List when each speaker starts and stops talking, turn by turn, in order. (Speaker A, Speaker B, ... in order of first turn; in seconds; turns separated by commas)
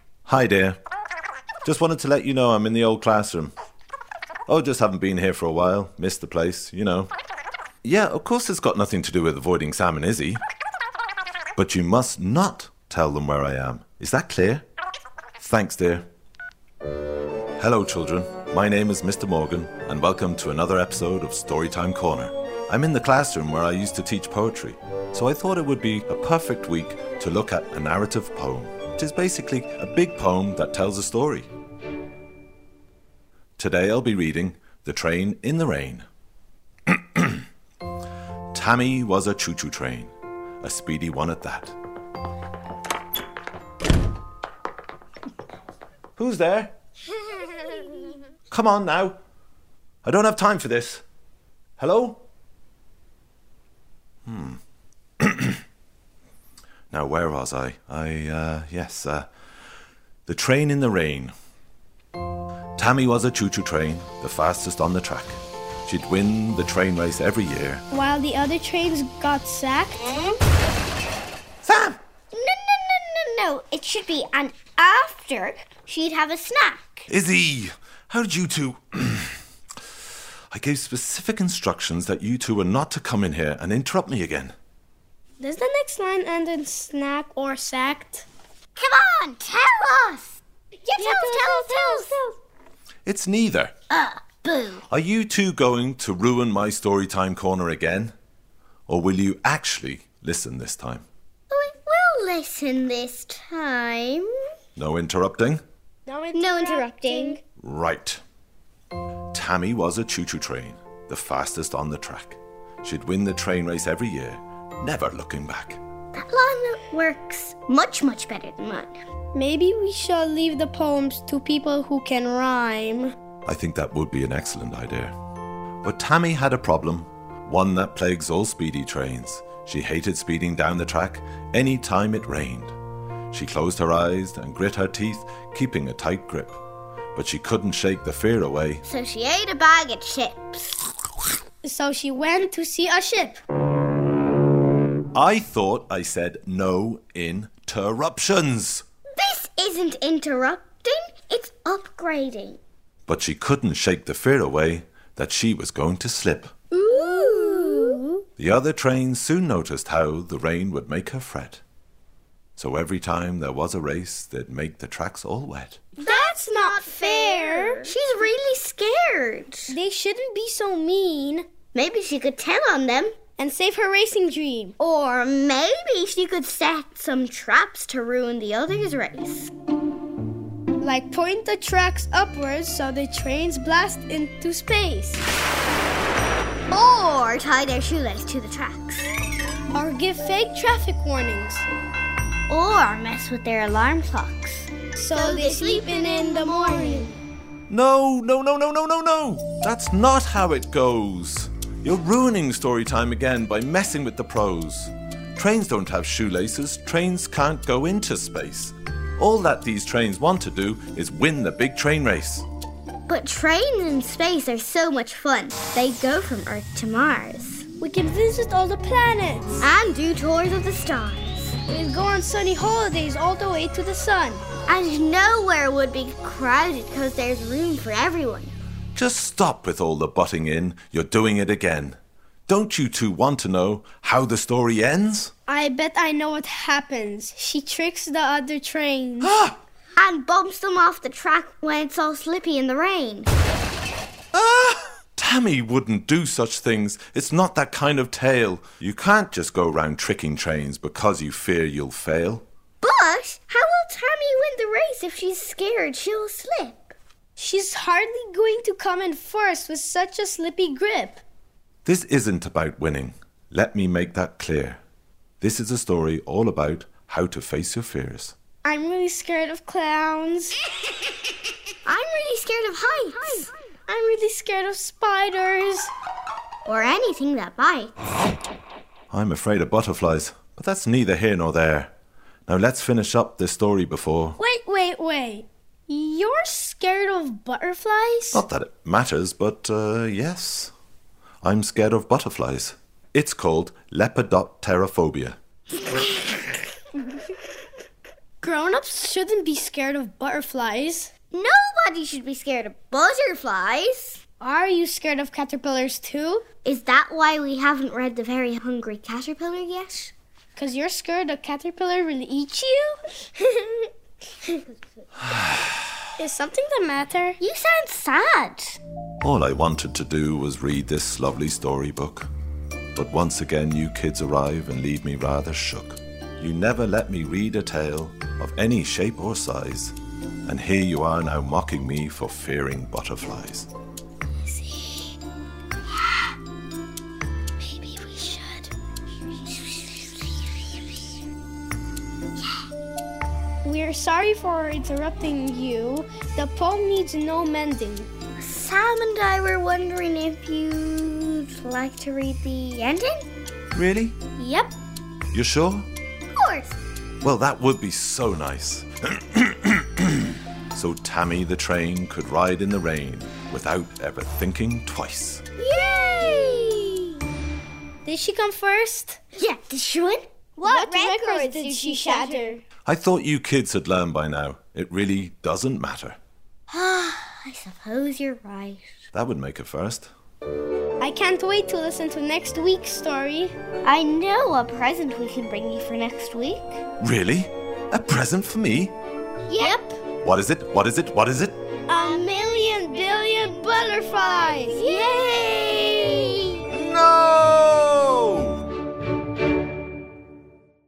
Speaker A: 0.2-0.8, Speaker A: 1.6-3.5, Speaker A: 4.5-7.1, Speaker A: 7.8-10.4, Speaker A: 11.6-14.7, Speaker A: 15.4-16.1, Speaker A: 17.6-31.5, Speaker A: 33.6-36.1, Speaker A: 36.9-37.4, Speaker A: 38.5-41.8, Speaker A: 46.1-46.7, Speaker A: 48.5-49.2, Speaker A: 50.0-51.0, Speaker A: 51.8-52.2, Speaker A: 54.3-54.6, Speaker A: 55.2-55.6, Speaker A: 56.9-59.3, Speaker A: 60.3-61.3, Speaker A: 62.8-67.8, Speaker B: 67.9-70.1, Speaker C: 70.1-70.4, Speaker A: 71.6-72.0, Speaker C: 72.3-77.1, Speaker A: 77.1-79.4, Speaker A: 80.5-84.5, Speaker B: 85.4-88.3, Speaker C: 88.8-92.2, Speaker B: 91.0-92.3, Speaker A: 93.0-93.7, Speaker C: 93.9-94.8, Speaker A: 94.9-98.1, Speaker A: 98.9-101.0, Speaker C: 101.5-104.3, Speaker A: 104.8-105.6, Speaker B: 106.1-107.4, Speaker C: 106.3-107.4, Speaker A: 107.6-108.2, Speaker A: 109.3-115.8, Speaker C: 116.1-119.0, Speaker B: 119.3-123.2, Speaker A: 123.5-125.1, Speaker A: 125.8-132.8, Speaker A: 133.3-136.6, Speaker A: 137.2-138.8, Speaker C: 138.9-140.9, Speaker B: 141.6-143.4, Speaker A: 145.1-148.8, Speaker C: 149.2-152.6, Speaker A: 153.1-156.5, Speaker B: 156.7-158.0, Speaker C: 156.8-158.2, Speaker A: 158.4-161.6, Speaker A: 162.6-165.8, Speaker B: 166.0-167.9, Speaker C: 166.0-169.8, Speaker B: 169.7-171.5, Speaker C: 171.7-173.2, Speaker B: 173.4-174.8, Speaker C: 174.8-179.5, Speaker B: 180.8-185.2, Speaker C: 186.7-189.2, Speaker B: 189.7-191.7, Speaker C: 192.5-197.2, Speaker B: 194.9-197.1, Speaker A: 197.7-212.5, Speaker C: 213.1-217.7, Speaker B: 217.8-219.7, Speaker C: 219.6-221.6, Speaker B: 221.7-224.4, Speaker C: 224.7-228.5, Speaker A: 228.9-235.3, Speaker B: 235.5-239.3, Speaker A: 239.2-239.6, Speaker C: 240.0-243.3, Speaker A: 244.3-252.4, Speaker C: 252.8-256.9, Speaker B: 257.4-261.2, Speaker A: 261.9-264.8, Speaker A: 265.4-268.4, Speaker B: 268.6-270.6, Speaker C: 271.9-273.5, Speaker B: 273.9-275.9, Speaker C: 276.7-277.9, Speaker A: 279.1-281.9, Speaker A: 282.5-284.4, Speaker B: 284.4-288.4, Speaker A: 288.3-290.7, Speaker A: 291.4-295.4, Speaker B: 298.4-301.1, Speaker C: 301.3-304.2, Speaker B: 304.4-306.4, Speaker C: 306.6-310.1, Speaker B: 310.6-313.0, Speaker A: 315.2-315.9, Speaker B: 316.2-317.4, Speaker C: 317.4-318.8, Speaker A: 319.2-322.3, Speaker A: 322.9-333.7, Speaker B: 334.5-335.1, Speaker B: 337.6-338.7, Speaker B: 343.6-348.1, Speaker C: 348.4-353.3, Speaker A: 353.7-354.2, Speaker C: 354.4-354.7, Speaker A: 355.3-355.9, Speaker C: 356.4-356.8, Speaker A: 357.2-365.4, Speaker C: 365.6-367.1, Speaker B: 368.1-369.2, Speaker C: 369.4-372.6, Speaker B: 370.6-372.6, Speaker A: 372.9-376.2, Speaker C: 376.7-379.0, Speaker A: 379.1-380.1, Speaker B: 381.0-383.6, Speaker C: 383.8-386.8, Speaker A: 387.0-388.9, Speaker C: 389.5-389.8, Speaker B: 389.6-389.9, Speaker A: 390.2-391.6, Speaker B: 391.9-395.0, Speaker C: 391.9-392.2, Speaker C: 394.6-396.6, Speaker A: 396.7-398.6